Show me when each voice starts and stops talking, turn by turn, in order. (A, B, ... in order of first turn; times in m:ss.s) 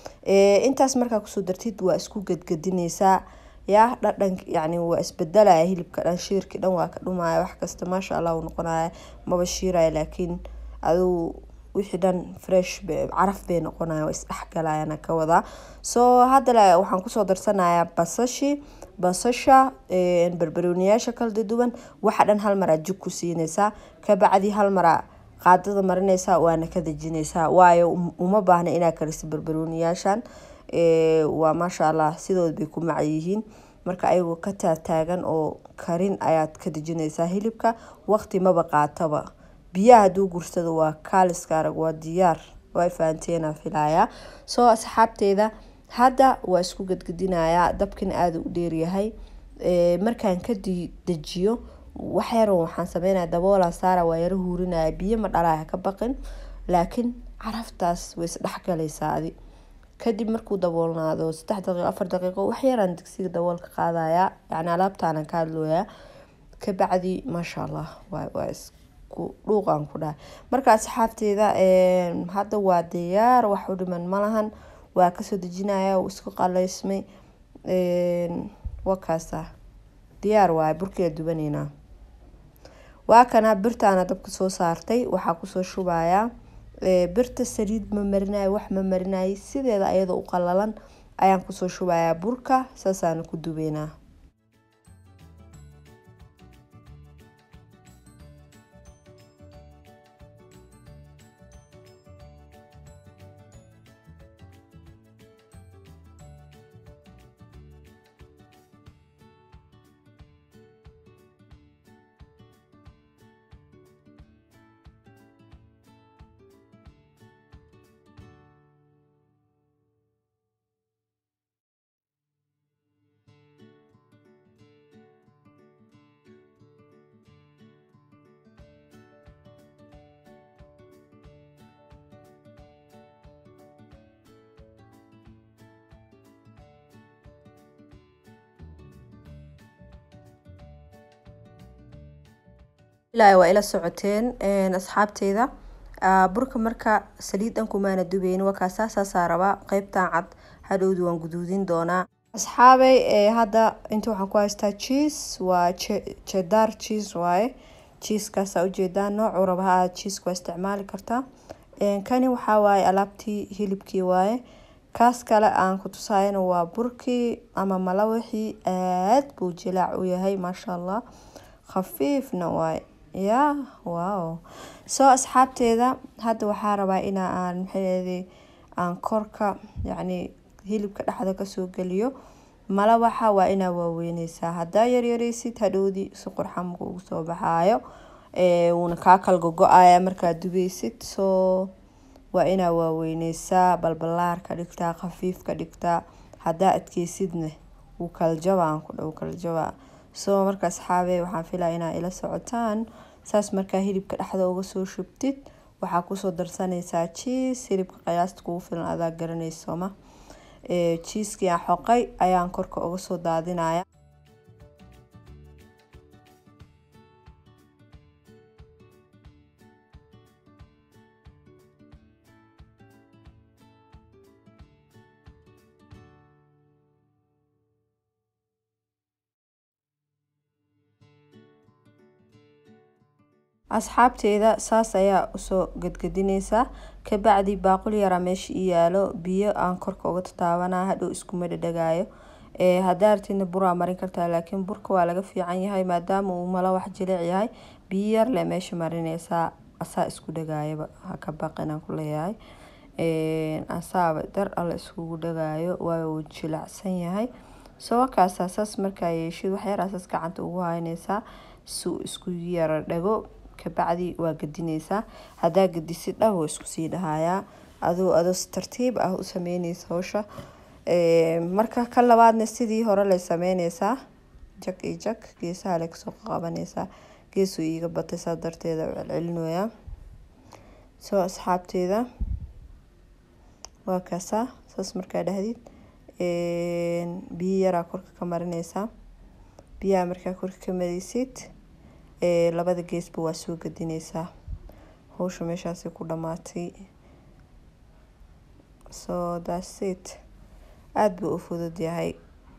0:00.2-0:56.2 A
0:56.7-0:59.3 A
1:00.0-1:05.9 A
1:06.6-1:17.0 A
1:17.7-1:19.5 A
1:20.2-1:21.7 A
1:23.1-1:26.3 A
1:26.8-1:33.9 A
2:23.1-2:25.5 A
2:26.0-2:41.2 A
2:41.8-2:44.4 A
2:44.9-2:51.0 A
2:51.7-2:58.3 A
2:58.8-3:02.1 A
3:02.7-3:07.8 A
3:08.4-3:11.7 A
3:12.3-3:29.9 A
3:30.6-3:33.8 A
3:53.7-4:02.1 A
4:02.6-4:12.4 A
4:13.0-4:30.2 A
4:30.9-4:34.0 A
4:34.6-4:39.7 A
4:41.0-4:42.1 A
4:43.8-4:45.6 A
4:46.2-4:48.9 A
4:49.8-4:51.5 A
4:52.2-4:54.3 A
4:55.1-4:56.8 A
4:58.9-5:00.2 A
5:01.0-5:02.2 A